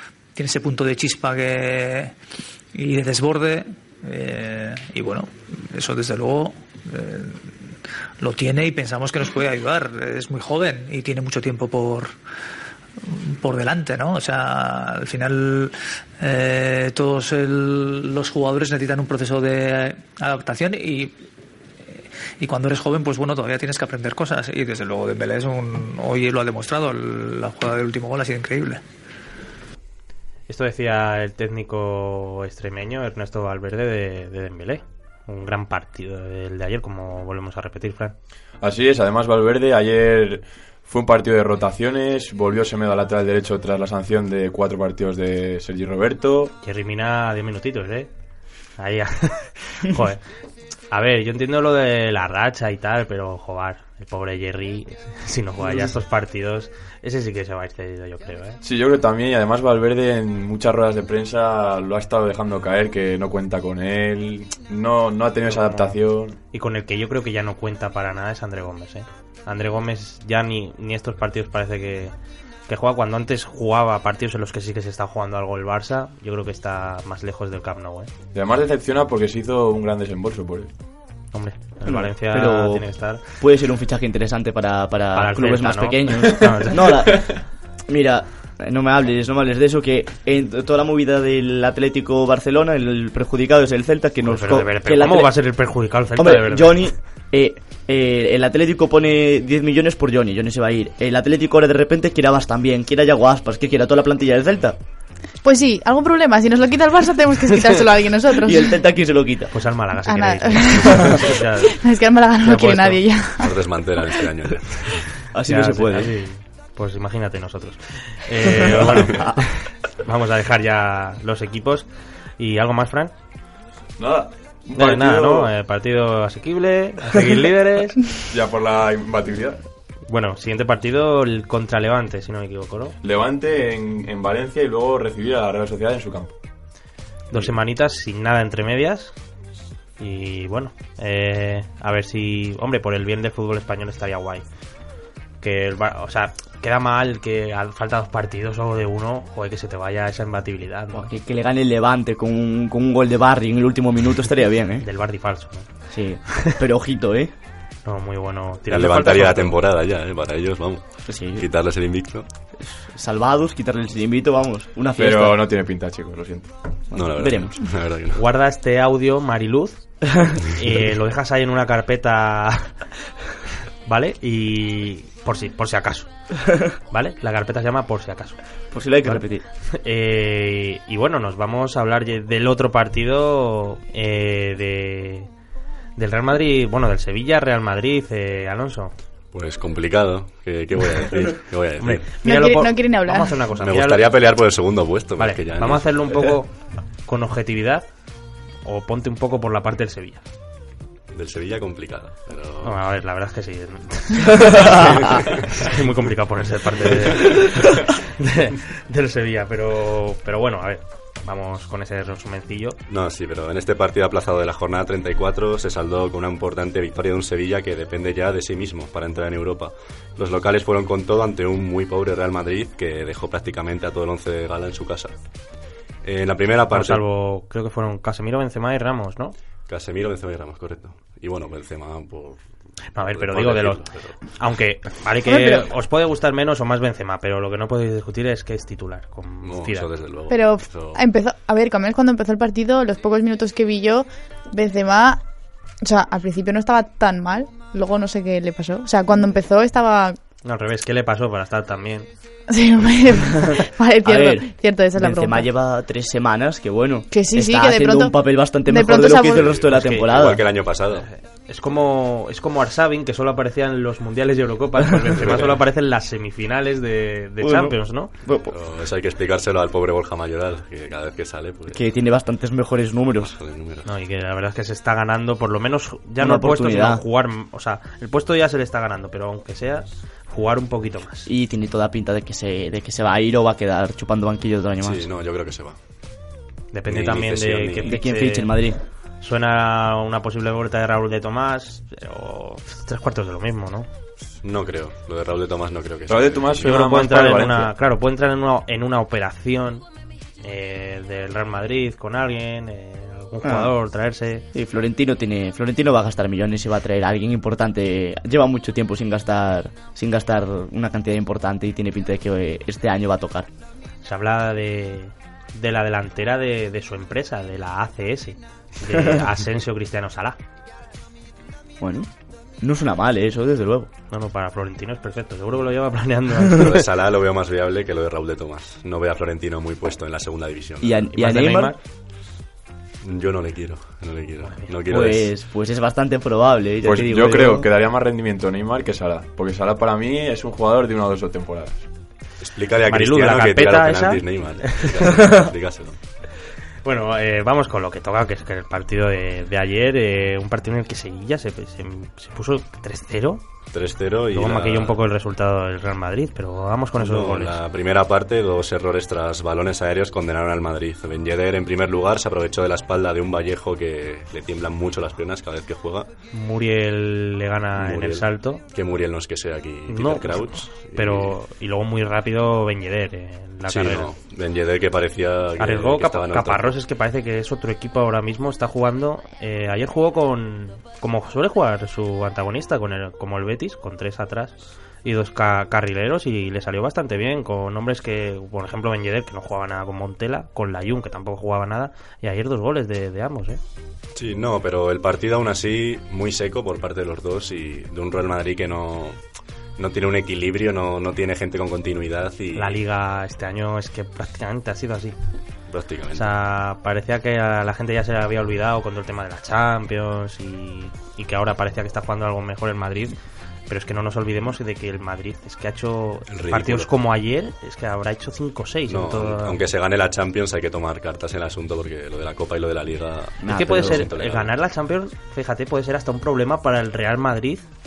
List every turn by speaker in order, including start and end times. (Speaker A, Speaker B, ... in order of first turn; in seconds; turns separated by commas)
Speaker A: 0.3-2.1, Speaker A: 2.7-12.2, Speaker A: 13.0-21.2, Speaker A: 22.4-28.8, Speaker B: 30.5-38.1, Speaker C: 38.6-46.5, Speaker B: 46.6-48.1, Speaker B: 48.8-50.2, Speaker B: 50.9-58.6, Speaker C: 58.6-66.4, Speaker B: 65.5-66.0, Speaker B: 66.5-72.1, Speaker B: 72.7-78.1, Speaker C: 78.3-80.7, Speaker B: 81.3-83.2, Speaker D: 81.8-95.4, Speaker B: 85.1-86.9, Speaker B: 94.2-96.8, Speaker D: 96.2-104.8, Speaker E: 105.4-108.8, Speaker D: 108.5-109.5, Speaker B: 109.5-111.8, Speaker E: 110.0-113.6, Speaker B: 112.4-113.0, Speaker F: 113.4-115.2, Speaker D: 115.3-116.1, Speaker B: 115.5-123.1, Speaker C: 124.0-125.5, Speaker B: 124.7-128.0, Speaker C: 128.3-129.6, Speaker B: 130.1-132.9, Speaker C: 133.0-136.4, Speaker B: 137.3-139.2, Speaker B: 140.0-144.4, Speaker B: 145.4-151.1, Speaker D: 150.9-154.8, Speaker B: 154.8-155.8, Speaker D: 155.9-157.3, Speaker B: 157.8-159.6, Speaker F: 158.7-162.3, Speaker D: 161.1-161.5, Speaker D: 162.6-165.4, Speaker C: 165.0-166.5, Speaker F: 166.9-168.2, Speaker D: 166.9-167.6, Speaker B: 168.1-169.8, Speaker B: 170.4-172.8, Speaker B: 173.8-176.1, Speaker B: 176.9-178.4, Speaker D: 178.7-179.4, Speaker B: 179.0-185.3, Speaker B: 186.0-188.9, Speaker F: 189.3-192.1, Speaker B: 191.8-194.1, Speaker E: 192.2-193.4, Speaker F: 193.6-196.3, Speaker B: 195.2-197.9, Speaker B: 198.7-200.2, Speaker F: 201.1-202.8, Speaker B: 202.6-212.8, Speaker F: 204.4-205.7, Speaker F: 212.9-225.1, Speaker F: 226.0-227.0, Speaker B: 226.7-229.3, Speaker F: 229.7-232.4, Speaker B: 232.9-239.9, Speaker F: 233.0-234.2, Speaker E: 235.2-235.7, Speaker F: 239.4-241.0, Speaker E: 240.3-245.2, Speaker E: 245.8-250.2, Speaker B: 250.4-252.1, Speaker E: 252.5-255.5, Speaker D: 254.0-260.4, Speaker E: 257.1-259.5, Speaker F: 259.3-261.1, Speaker B: 259.7-260.1, Speaker B: 261.0-268.1, Speaker F: 265.2-265.6, Speaker D: 267.4-268.6, Speaker F: 268.5-271.9, Speaker D: 271.7-273.3, Speaker F: 273.2-273.9, Speaker B: 273.9-281.3, Speaker D: 276.2-277.0, Speaker D: 281.3-285.1, Speaker F: 284.8-285.8, Speaker B: 286.7-288.7, Speaker F: 286.9-287.9, Speaker D: 287.8-288.8, Speaker B: 289.2-293.9, Speaker F: 294.4-296.6, Speaker C: 296.1-297.7, Speaker B: 296.6-299.8, Speaker B: 300.4-304.5, Speaker D: 303.4-303.7, Speaker D: 304.5-313.5, Speaker B: 314.0-320.4, Speaker D: 321.8-322.1, Speaker D: 322.6-323.9, Speaker B: 324.1-326.8, Speaker F: 326.5-331.1, Speaker D: 330.8-331.7, Speaker B: 331.2-331.8, Speaker F: 333.0-335.3, Speaker B: 334.4-334.7, Speaker D: 334.9-337.7, Speaker C: 336.8-341.9, Speaker F: 342.4-346.0, Speaker B: 342.9-344.9, Speaker B: 346.8-353.4, Speaker F: 353.7-355.0, Speaker B: 354.3-357.6, Speaker F: 357.0-366.1, Speaker B: 366.3-368.6, Speaker F: 367.8-371.4, Speaker B: 369.9-374.1, Speaker F: 373.7-376.8, Speaker B: 375.6-393.6, Speaker F: 394.1-399.2, Speaker F: 399.8-402.8, Speaker B: 402.6-405.2, Speaker F: 405.7-406.3, Speaker B: 406.1-413.2, Speaker B: 413.7-419.6, Speaker F: 416.3-416.9, Speaker F: 418.9-424.6, Speaker D: 423.4-424.1, Speaker B: 423.5-427.6